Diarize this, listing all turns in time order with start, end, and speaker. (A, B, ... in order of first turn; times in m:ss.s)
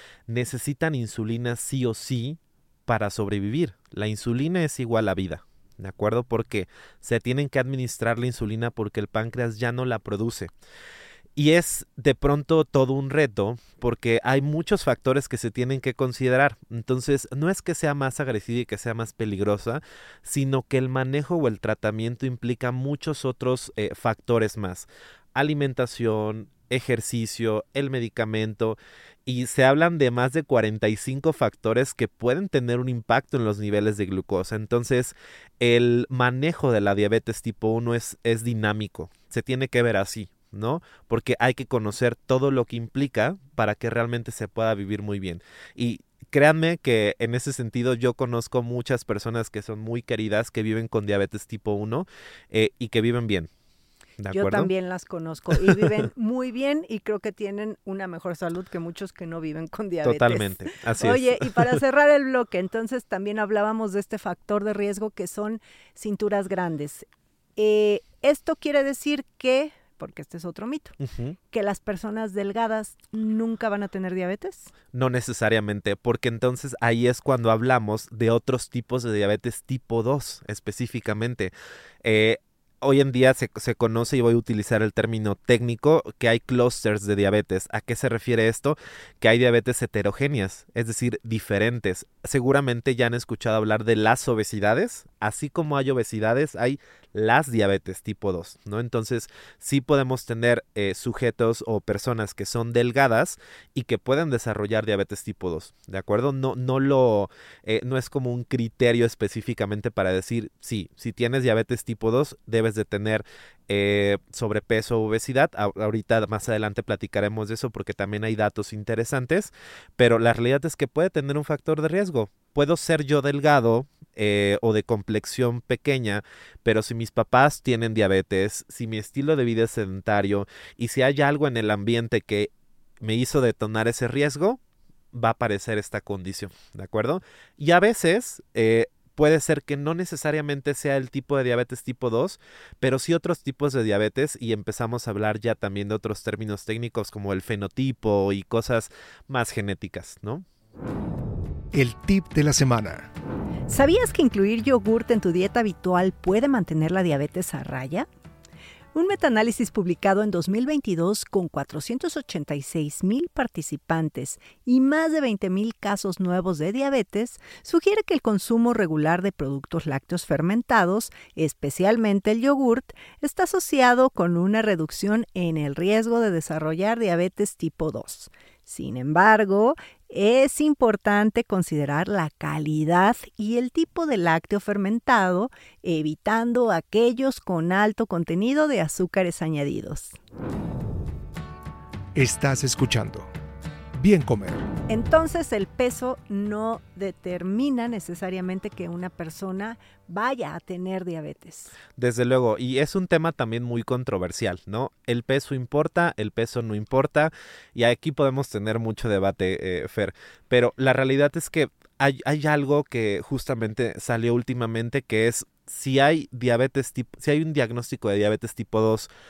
0:00.3-0:10.5 A
0:11.4-0:53.5 A
0:54.2-0:54.7 A
0:54.3-1:07.0 B
1:00.0-1:01.8 A
1:07.6-1:11.0 B
1:11.0-1:11.4 A
1:11.5-1:14.7 B
1:14.9-1:21.5 A
1:22.0-2:14.6 A
2:15.1-2:30.4 A
2:31.7-2:33.1 C
2:33.7-2:38.1 B
2:38.9-3:10.2 B
3:12.1-3:13.3 C
3:13.9-3:14.7 C
3:14.9-3:21.8 B
3:22.0-3:39.1 A